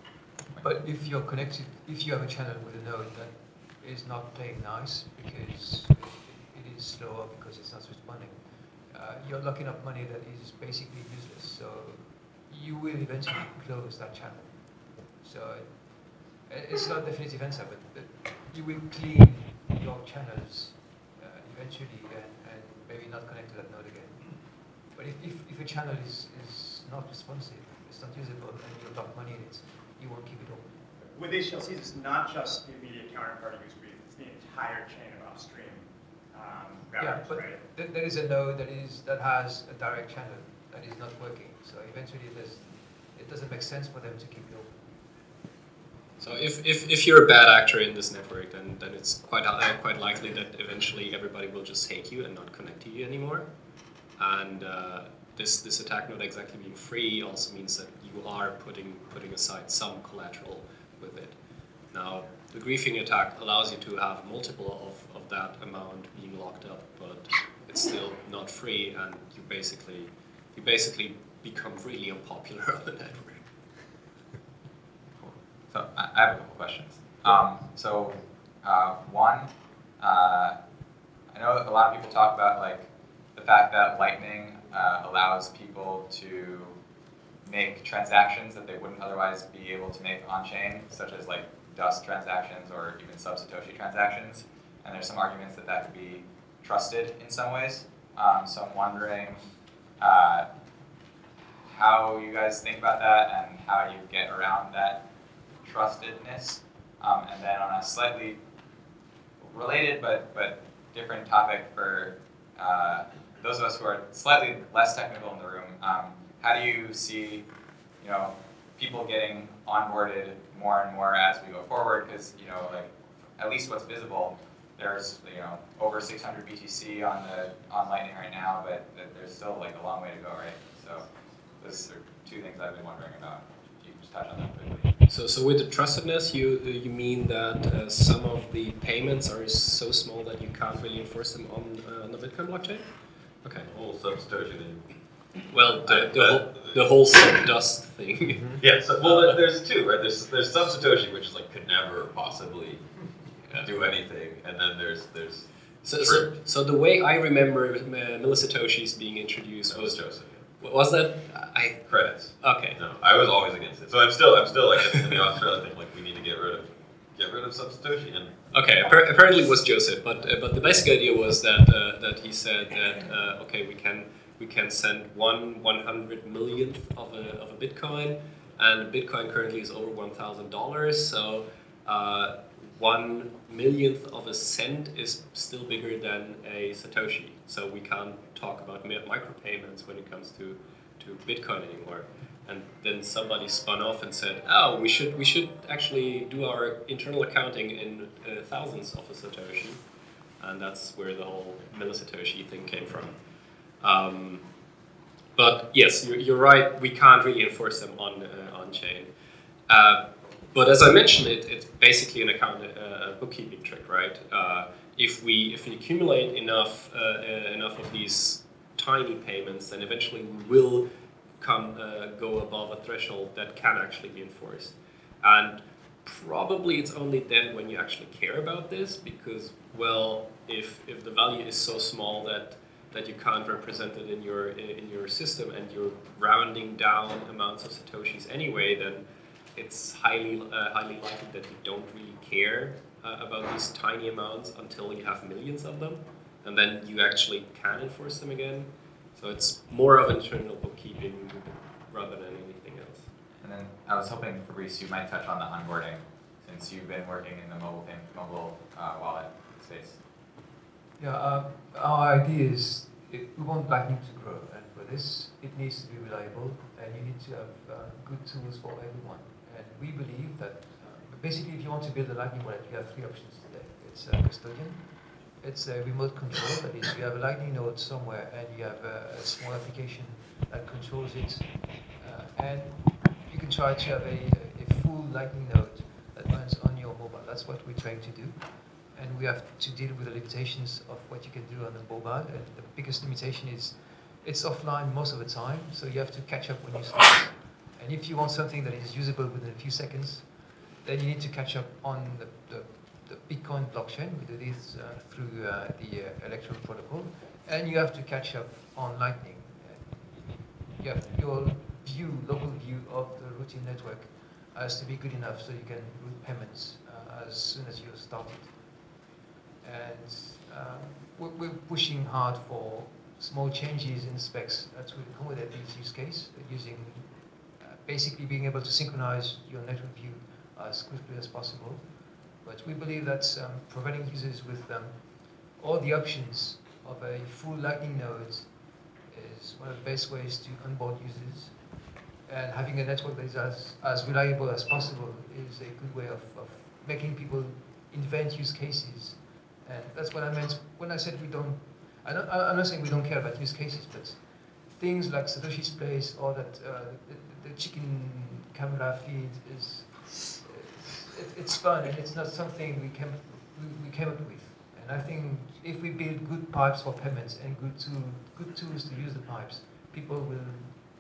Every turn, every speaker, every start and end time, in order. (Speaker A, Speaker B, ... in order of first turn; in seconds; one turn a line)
Speaker A: 0.6-30.8
Speaker B: 31.1-37.6
Speaker A: 37.0-44.9
Speaker C: 46.2-53.5
Speaker C: 54.2-61.4
Speaker C: 61.9-73.4
Speaker D: 75.2-80.6
Speaker D: 81.3-86.8
Speaker D: 87.4-99.4
Speaker D: 100.0-100.5
Speaker D: 101.7-105.0
Speaker D: 105.6-108.4
Speaker D: 109.4-117.5
Speaker D: 118.0-131.0
Speaker D: 131.6-134.9
Speaker C: 135.1-142.8
Speaker E: 143.6-144.8
Speaker C: 145.5-149.4
Speaker E: 145.8-146.8
Speaker E: 148.6-152.8
Speaker E: 153.5-155.5
Speaker C: 155.8-160.0
Speaker E: 156.0-156.3
Speaker E: 159.7-160.4
Speaker C: 160.6-161.9
Speaker E: 161.9-168.9
Speaker C: 162.4-162.8
Speaker C: 168.5-199.8
Speaker C: 200.4-203.2
Speaker C: 203.8-204.4
Speaker C: 205.4-209.1
Speaker C: 209.7-220.9
Speaker C: 221.4-239.0
Speaker C: 239.6-253.1
Speaker D: 253.4-260.0
Speaker A: 261.0-318.6
Speaker A: 319.6-331.9
Speaker A: 332.4-341.6
Speaker A: 342.3-370.8